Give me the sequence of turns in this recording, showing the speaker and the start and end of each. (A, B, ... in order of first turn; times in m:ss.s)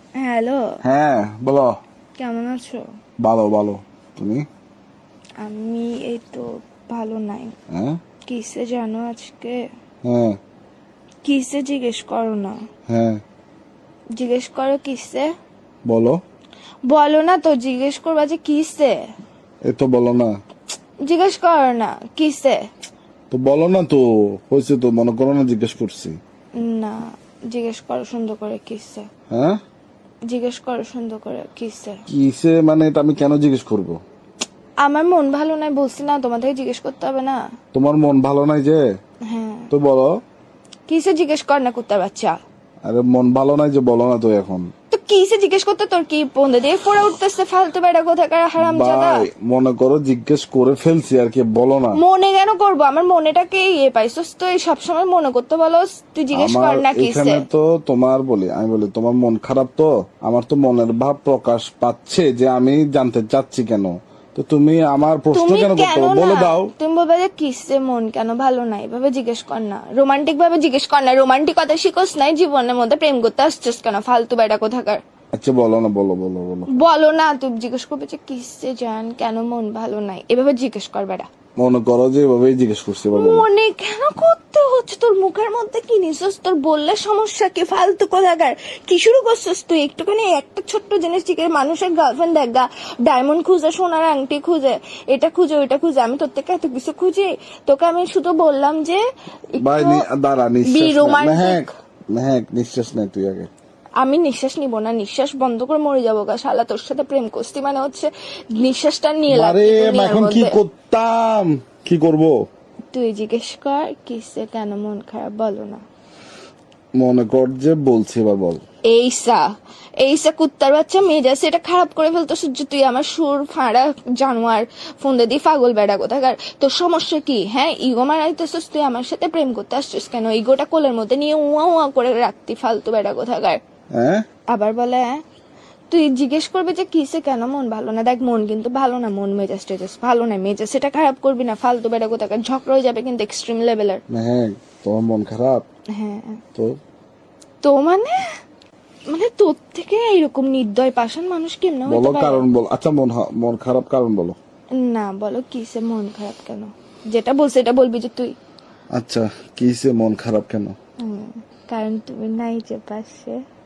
0:00.2-0:00.8 A
0:00.8-0:01.8 B
0:02.2-0:02.8 A
0:03.2-0:04.4 B
0:05.4-0:07.5 A
0:07.7-0:08.0 B
0:08.3-0:09.6 A
0:10.0-0:10.4 B
0:11.2-0:12.6 A
0:12.9-0:13.2 B
0:14.2-0:15.3 A
0:15.8-0:16.2 B
0:16.9-0:19.0 A
0:19.6-0:20.3 B
0:21.0-0:22.6 A
0:23.3-0:26.2 B
0:26.6-0:29.1 A
0:29.3-0:29.6 B
0:30.3-0:32.0 A
0:32.1-0:34.0 B
0:34.8-0:37.4 A
0:37.7-0:38.8 B
0:39.3-0:39.7 A
0:39.7-0:40.1 B
0:40.9-0:42.4 A
0:42.8-0:44.7 B
0:44.9-0:49.2 A
0:48.6-0:52.0 B
0:52.0-0:57.4 A
0:56.3-1:06.7 B
1:05.3-1:15.0 A
1:15.3-1:16.7 B
1:16.7-1:21.3 A
1:21.6-1:23.4 B
1:23.1-1:39.0 A
1:39.6-1:40.0 A
1:39.6-1:43.5 B
1:40.7-1:41.7 A
1:44.0-1:50.6 A
1:49.3-1:52.3 B
1:52.9-1:55.8 A
1:57.0-1:58.6 B
1:58.9-1:59.4 A
2:00.0-2:13.6 A
2:13.9-2:14.2 B
2:14.5-2:15.2 A
2:15.9-2:24.0 A
2:24.1-2:25.6 B
2:25.9-2:26.4 A
2:27.6-2:28.2 A
2:29.1-2:32.5 A
2:31.9-2:34.4 B
2:34.7-2:38.3 A
2:39.0-2:40.8 B
2:41.0-2:43.4 A